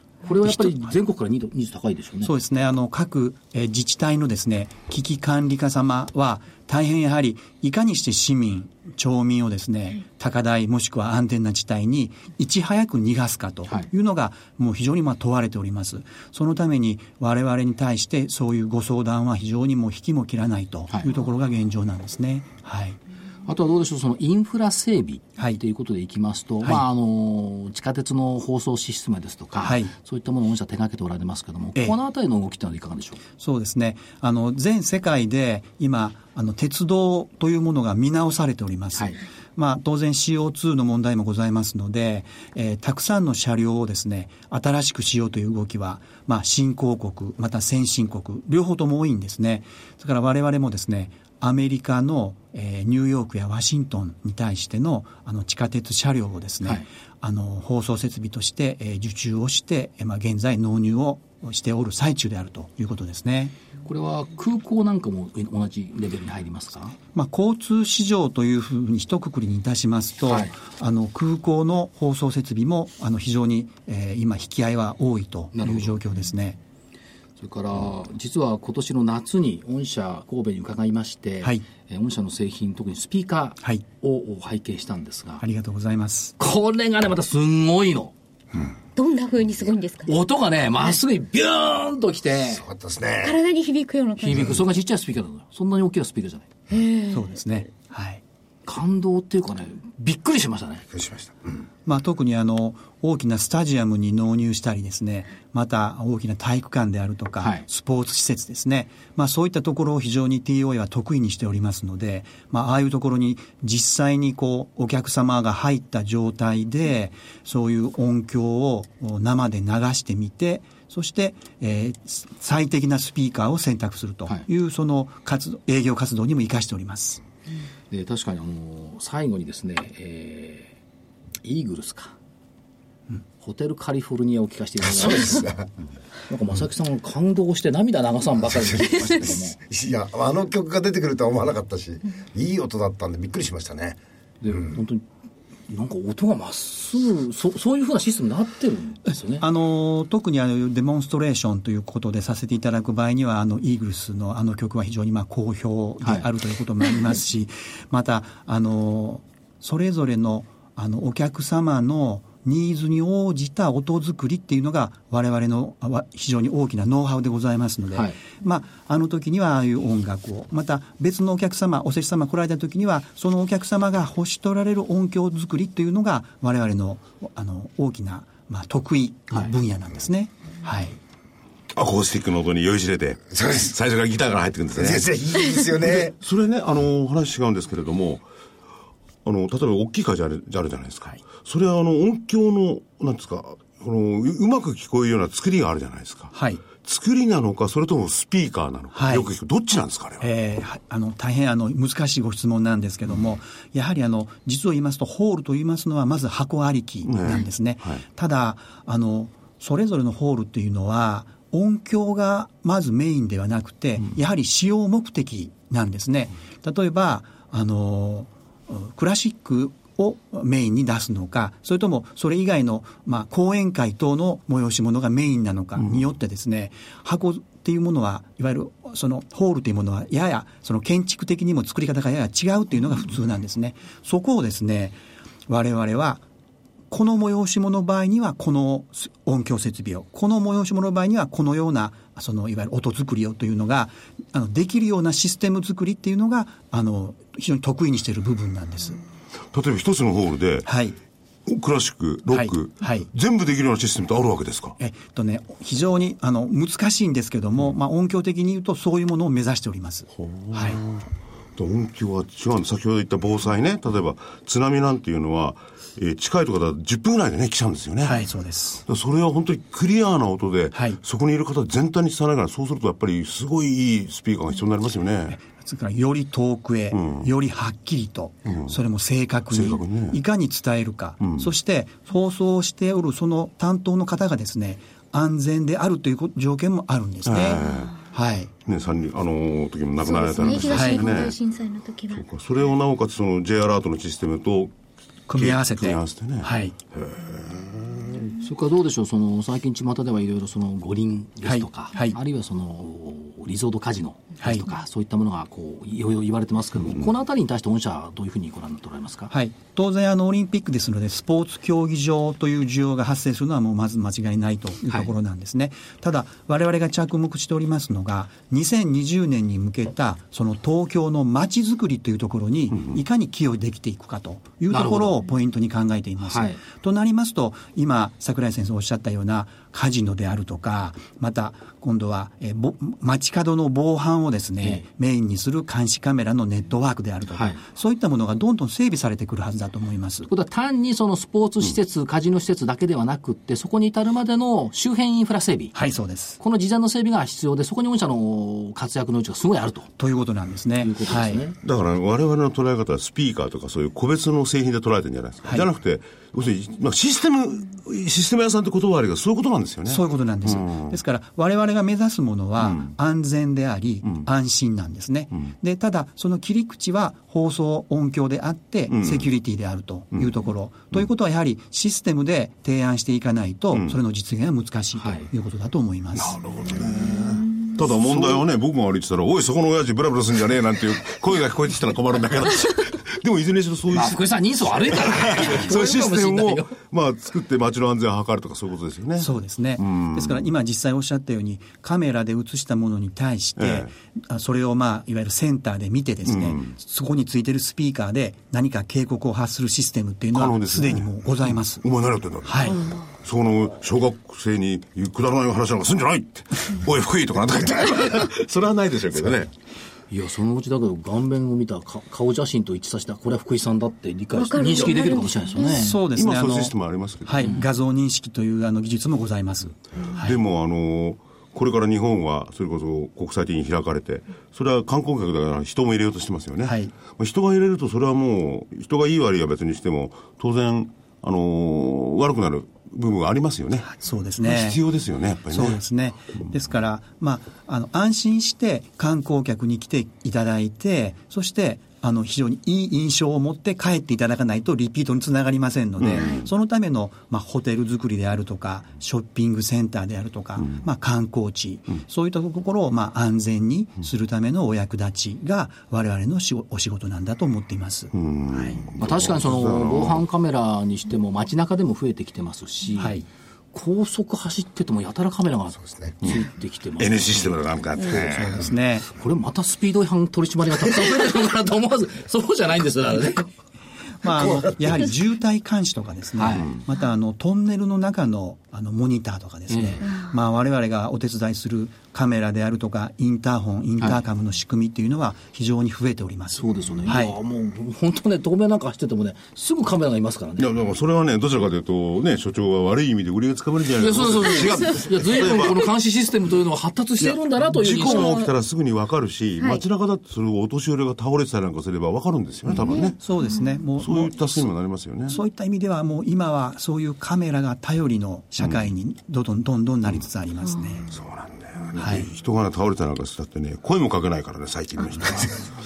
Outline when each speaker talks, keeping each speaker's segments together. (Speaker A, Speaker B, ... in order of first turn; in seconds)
Speaker A: 0.2-2.3, 23.5-33.2, 39.0-39.2, 63.9-67.0, 70.3-70.5, 75.5-75.9, 77.4-85.4, 86.4-88.1, 90.1-92.6, 94.2-96.5, 98.7-100.9, 107.4-107.7, 127.9-130.8, 131.4-132.2, 133.4-135.5, 136.3-139.6, 144.4-145.1, 145.7-149.4, 298.4-309.3, 324.7-325.1, 326.3-326.6, 337.3-337.6, 340.3-345.8, 346.4-349.9, 350.8-351.6, 375.0-375.3, 383.9-386.8, 410.1-416.0, 459.0-463.2, 463.7-467.6, 469.1-473.5, 476.4-476.7, 479.7-480.0, 486.6-490.7, 494.0-498.4
Speaker B: 0.4-0.9, 2.2-23.0, 29.6-29.9, 33.4-63.5, 67.1-76.6, 85.4-86.3, 97.1-98.2, 101.9-127.2, 149.4-181.0, 196.3-196.7, 198.9-199.3, 200.2-236.2, 236.9-249.0, 250.7-251.0, 252.3-253.1, 254.8-260.8, 268.0-268.8, 270.7-271.0, 275.3-288.5, 290.7-291.1, 295.3-296.8, 301.4-302.2, 304.4-304.7, 309.3-340.3, 345.8-346.4, 350.0-351.5, 359.9-376.4, 389.2-401.8, 402.4-402.8, 415.7-416.7, 417.2-420.4, 426.6-426.9, 433.8-434.8, 435.5-458.8, 463.0-463.3, 468.2-469.1, 474.2-487.4, 503.1-504.7, 505.3-511.1, 512.0-512.3
Speaker C: 89.0-90.1, 93.2-94.5, 96.7-97.3, 290.0-292.2, 414.3-415.8
Speaker D: 92.5-93.4, 100.9-101.6, 134.8-135.7, 138.5-144.0, 183.3-183.7, 184.8-186.2, 465.8-466.2, 474.3-475.0
Speaker E: 181.7-185.1, 185.8-188.2, 189.2-200.3, 207.1-208.0, 249.5-250.7, 251.5-254.8, 260.2-268.2, 268.9-275.4, 276.9-277.3, 278.5-278.8, 279.5-280.2, 281.2-281.5, 287.3-288.0, 288.6-291.4, 292.1-294.7, 295.4-298.3, 351.6-361.0, 362.6-362.9, 368.9-369.3, 373.7-374.0, 376.1-390.4, 393.6-393.9, 396.3-396.7, 400.3-409.5, 416.1-417.6, 420.2-433.9, 434.4-435.8, 446.0-446.5, 458.1-460.2, 467.0-468.7, 490.6-495.9, 497.2-503.2, 504.0-505.4, 508.6-508.9, 511.1-515.7